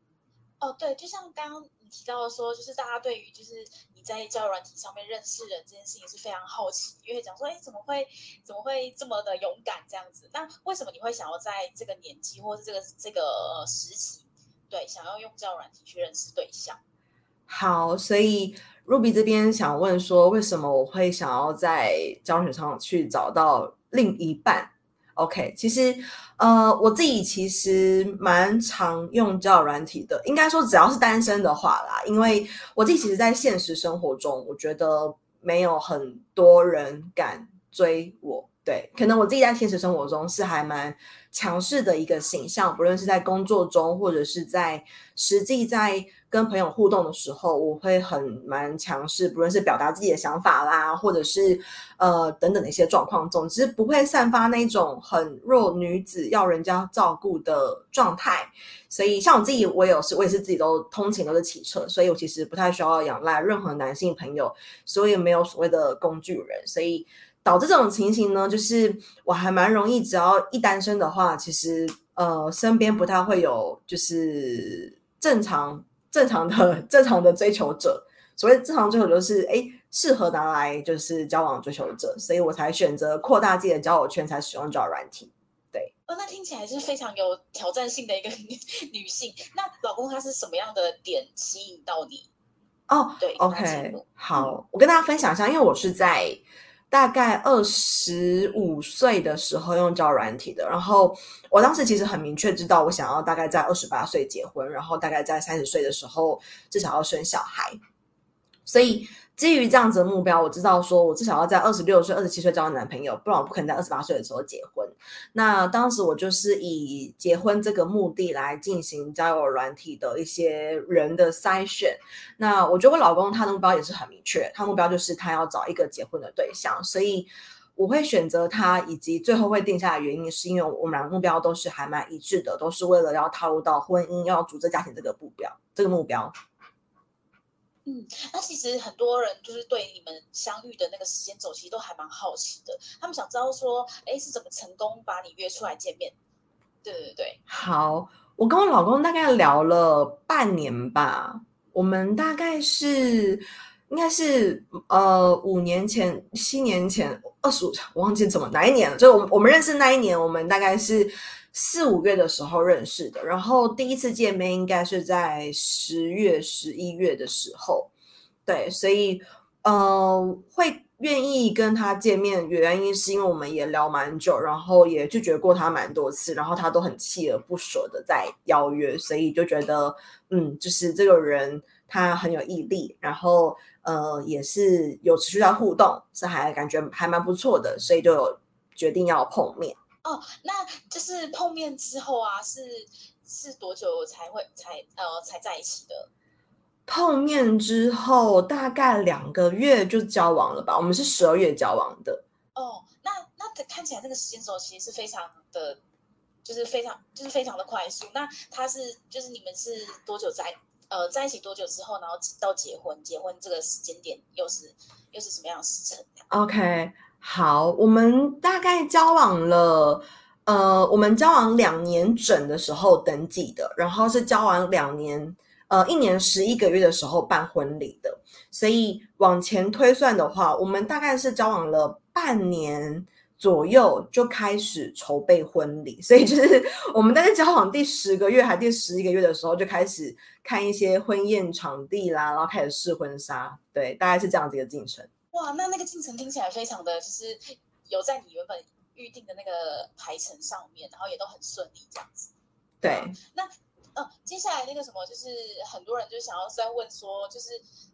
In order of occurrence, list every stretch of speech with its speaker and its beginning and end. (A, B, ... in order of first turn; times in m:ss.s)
0:00.6-0:16.8 A
0:17.5-1:25.9 B
1:26.1-1:32.3 A
1:32.9-1:47.8 B
1:33.2-1:34.5 A
1:48.6-2:16.3 B
2:17.8-2:26.1 A
2:26.8-2:27.4 A
2:27.5-2:47.9 B
2:48.4-3:09.8 B
3:10.0-3:16.1 A
3:16.9-3:22.2 B
3:22.5-3:25.8 A
3:26.4-3:36.2 A
3:36.3-4:05.1 B
4:05.3-4:12.3 A
4:12.8-4:13.2 B
4:12.8-4:17.6 A